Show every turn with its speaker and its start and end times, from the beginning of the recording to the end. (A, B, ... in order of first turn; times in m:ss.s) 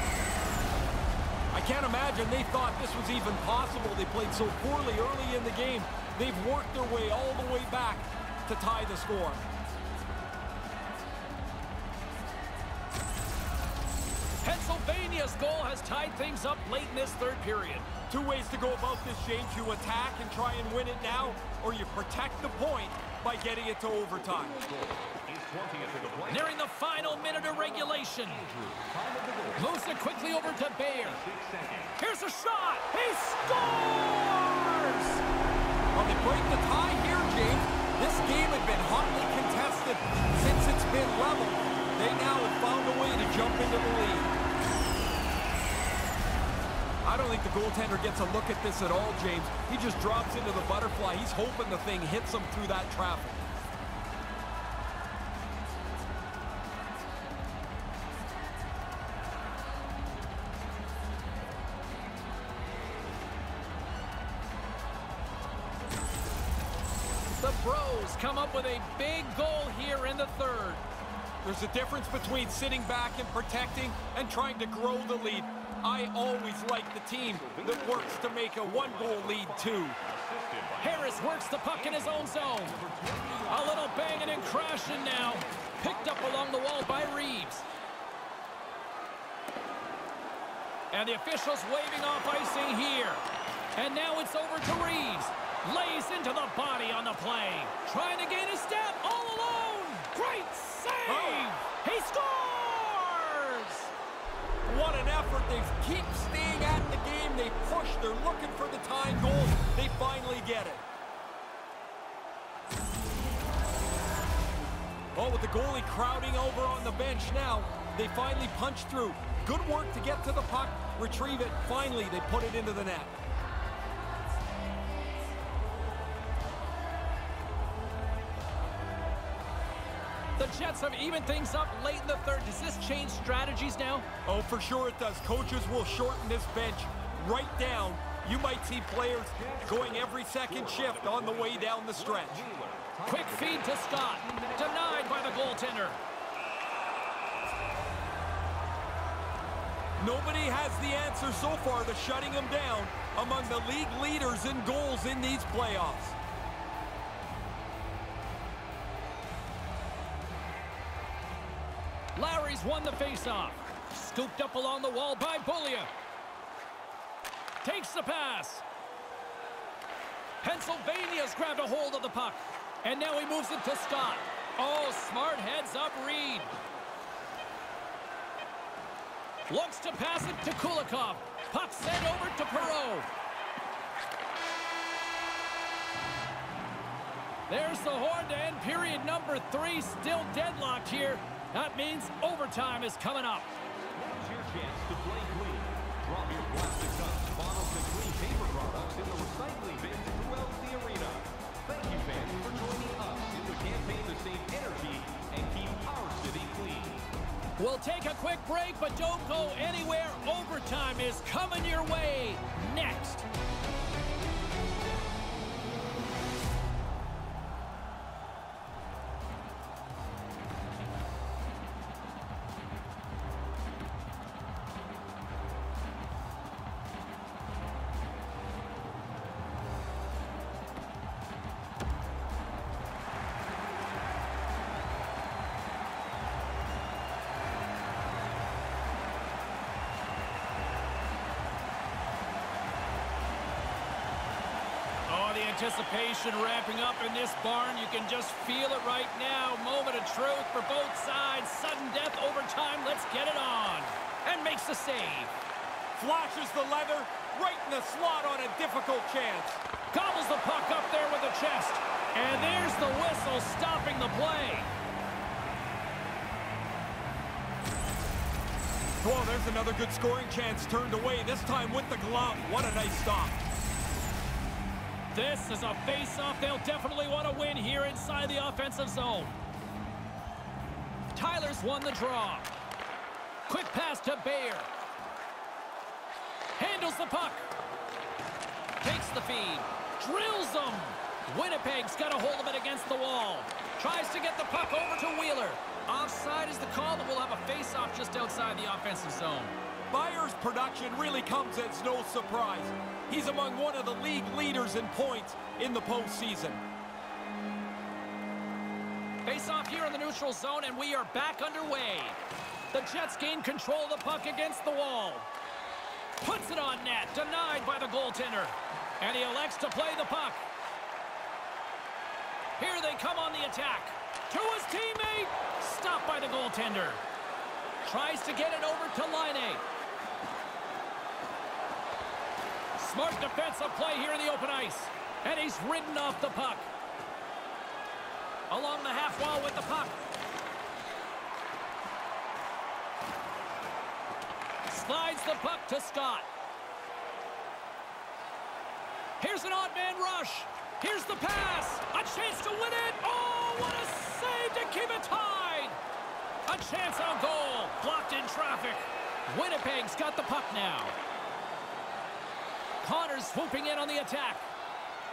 0:01.5-0:09.5 A
0:14.4-0:17.9 B
0:18.1-0:24.6 A
0:24.6-0:29.8 C
0:26.3-0:28.4 B
0:29.6-0:31.2 B
0:30.9-0:32.0 C
0:32.0-0:35.2 B
0:35.9-0:44.3 A
0:47.0-0:53.4 A
1:07.4-1:10.8 B
1:11.4-1:20.0 A
1:17.3-1:26.5 C
1:20.8-1:22.8 B
1:23.5-1:27.6 B
1:30.9-1:33.2 B
1:33.8-1:43.9 B
1:41.1-1:41.5 A
1:44.7-1:50.8 A
1:55.1-2:03.1 A
2:10.4-2:14.1 B
2:14.3-2:22.4 A
2:19.4-2:25.5 C
2:23.0-2:26.0 B
2:30.0-2:36.2 A
2:42.2-2:45.9 B
2:47.6-2:48.6 B
2:50.4-2:56.5 B
2:59.5-3:03.1 B
3:07.5-3:13.5 B
3:14.0-3:27.1 C
3:27.6-3:33.3 B
4:05.1-4:15.3 B
4:16.0-4:19.6 A
4:19.9-4:24.7 B
4:29.0-4:33.4 A
4:35.1-4:39.4 B
4:41.2-4:42.5 B
4:43.5-4:44.7 B
4:46.6-4:47.5 B
4:48.8-4:59.6 B
4:59.9-5:06.6 A
5:09.2-5:12.2 B
5:12.7-5:15.3 B
5:16.2-5:20.5 B
5:22.6-5:27.0 B
5:27.8-5:29.6 B
5:32.8-5:36.7 B
5:38.5-5:40.0 B
5:44.7-5:46.3 B
5:49.2-5:55.8 B
5:56.5-6:01.0 B
6:02.8-6:04.4 B